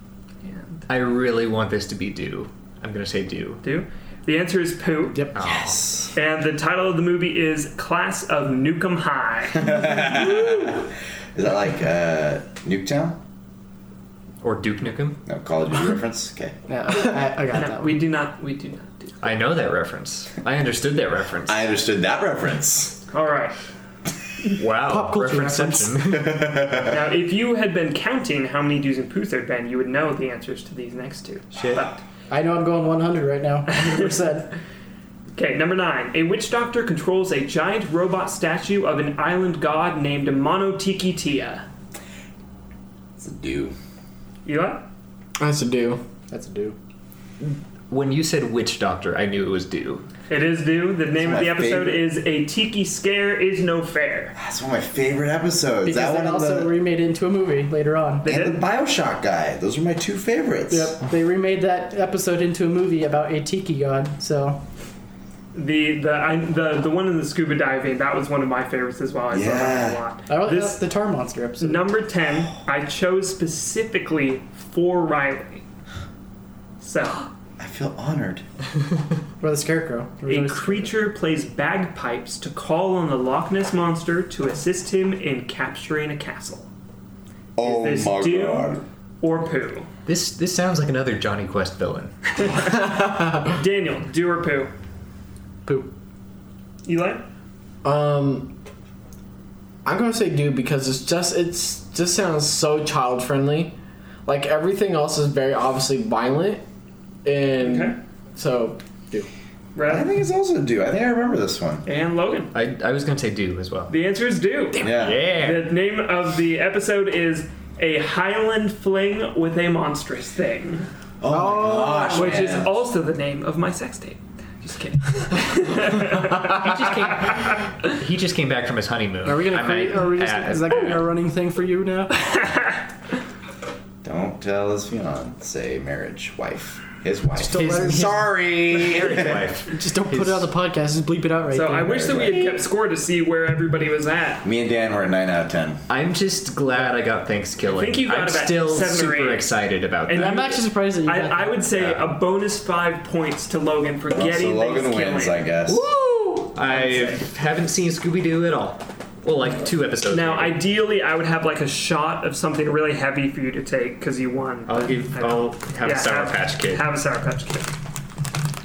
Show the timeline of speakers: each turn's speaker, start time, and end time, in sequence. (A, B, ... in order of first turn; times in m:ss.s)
0:00.4-0:00.8 A
0:00.9-0:03.6 B
0:03.6-0:05.2 A
0:05.4-0:05.8 B
0:05.4-0:06.1 C
0:06.2-0:10.8 A
0:09.6-0:13.2 C
0:14.4-0:15.2 B
0:15.3-0:16.6 C
0:16.7-0:18.0 D
0:17.5-0:19.2 A
0:19.2-0:21.6 B
0:21.5-0:23.0 C
0:23.1-0:23.6 A
0:24.6-0:26.4 B
0:24.9-0:25.9 D
0:26.1-0:27.0 C
0:26.9-0:32.0 A
0:32.3-0:34.6 D
0:33.7-0:34.1 A
0:35.4-0:41.7 A
0:43.2-0:43.8 C
0:44.4-0:44.8 A
0:45.4-0:46.0 E
0:46.3-0:46.8 D
0:47.4-0:50.1 B
0:50.3-0:54.4 A
0:51.2-0:52.0 C
0:54.4-0:56.8 C
0:55.8-0:58.3 D
0:58.2-0:58.6 A
0:58.2-1:01.0 C
1:00.7-1:04.6 D
1:05.5-1:10.8 A
1:09.3-1:10.0 C
1:10.3-1:11.9 D
1:11.6-1:15.6 A
1:16.8-1:17.3 A
1:17.6-1:18.4 C
1:19.4-1:20.9 D
1:20.3-1:26.7 A
1:27.6-1:28.8 C
1:27.6-1:29.9 A
1:30.1-1:32.1 B
1:32.4-1:32.7 A
1:32.6-1:33.6 E
1:33.4-1:34.7 A
1:36.8-1:37.2 A
1:37.8-1:38.5 E
1:39.8-1:43.7 E
1:44.3-1:46.6 E
1:47.2-1:49.3 E
1:47.6-1:48.0 A
1:49.8-1:50.1 A
1:49.9-1:51.8 C
1:51.9-1:52.5 A
1:52.5-1:53.9 B
1:53.9-2:00.9 A
1:54.8-1:55.7 B
1:54.8-1:55.3 C
2:01.2-2:02.8 C
2:01.3-2:02.7 D
2:02.1-2:07.9 A
2:06.4-2:11.0 B
2:09.2-2:12.2 D
2:12.2-2:12.8 A
2:14.0-2:19.4 C
2:17.4-2:18.2 D
2:17.6-2:20.5 B
2:19.7-2:22.4 D
2:21.5-2:24.4 A
2:21.8-2:22.5 C
2:24.4-2:25.8 C
2:25.9-2:30.4 B
2:27.6-2:29.5 A
2:30.1-2:35.4 A
2:30.1-2:31.6 D
2:34.1-2:35.8 C
2:35.7-2:40.6 B
2:36.7-2:37.2 A
2:40.1-2:47.7 A
2:44.7-2:46.9 B